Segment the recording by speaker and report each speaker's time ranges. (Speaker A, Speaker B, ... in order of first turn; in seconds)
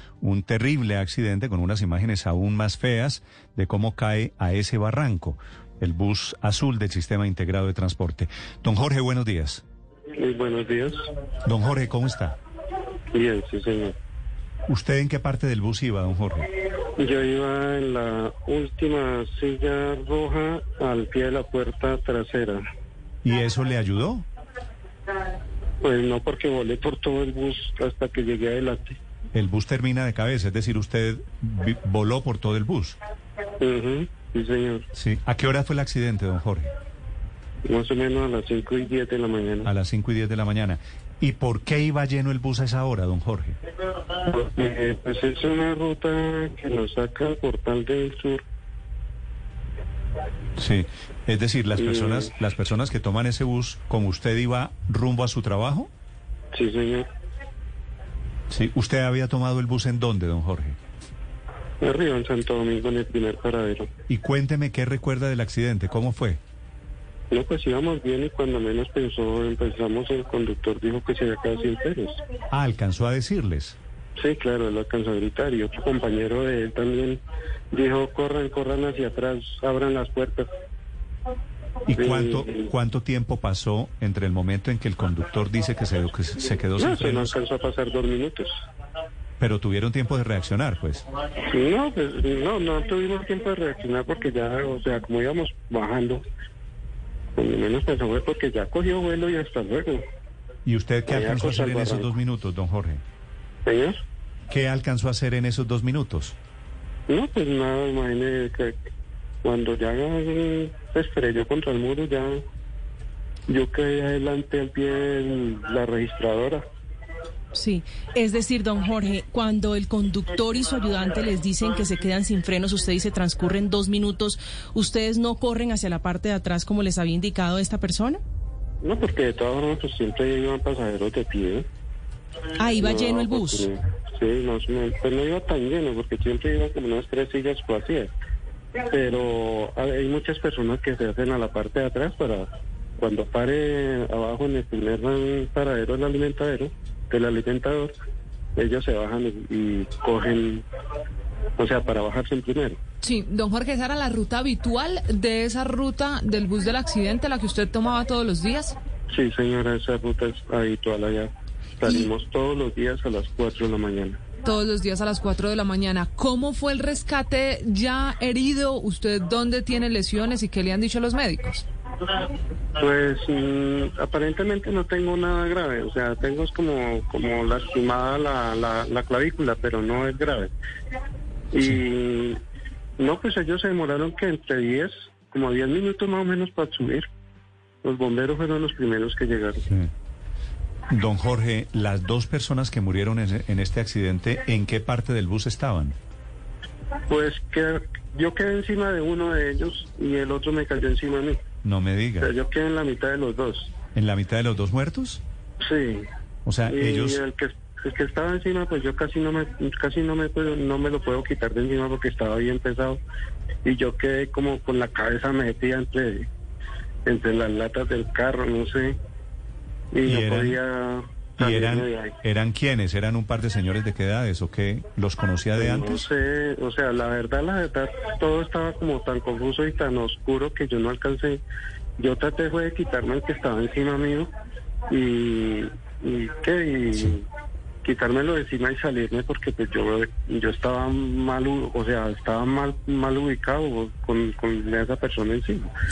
Speaker A: 0.2-9.6, 11.4-12.4, 14.7-16.5, 23.2-24.3, 29.3-33.0, 34.9-36.7, 39.6-43.6, 50.6-55.9, 58.5-60.8, 64.1-66.4, 72.5-73.8, 81.9-87.3, 89.4-91.0, 100.7-103.0, 104.5-106.3, 190.9-196.0, 201.6-202.3, 203.9-205.2, 206.4-207.2, 220.0-220.6, 221.4-226.1
Speaker B: 10.2-11.1, 13.1-13.9, 17.0-22.6, 25.8-29.0, 33.6-34.9, 37.6-39.7, 44.2-48.4, 51.8-52.3, 56.5-57.1, 61.8-63.9, 67.3-72.2, 74.2-80.5, 82.0-82.5, 86.8-88.5, 91.5-96.2, 97.3-100.0, 101.1-102.1, 103.7-104.0, 107.1-108.8, 109.4-112.4, 113.5-116.6, 128.8-131.7, 132.8-138.1, 138.8-147.9, 148.6-150.7, 151.6-152.8, 159.1-164.2, 172.8-180.5, 181.5-182.4, 183.0-187.1, 187.8-189.7, 197.1-201.4, 202.2-203.7, 205.6-206.1, 206.7-213.0, 213.7-216.3, 217.1-219.0, 219.9-222.1, 225.6-231.4, 232.0-234.3, 234.9-237.3, 237.8-245.7
Speaker C: 117.5-128.2, 132.6-133.7
Speaker D: 153.0-158.8, 161.8-162.1, 164.4-171.6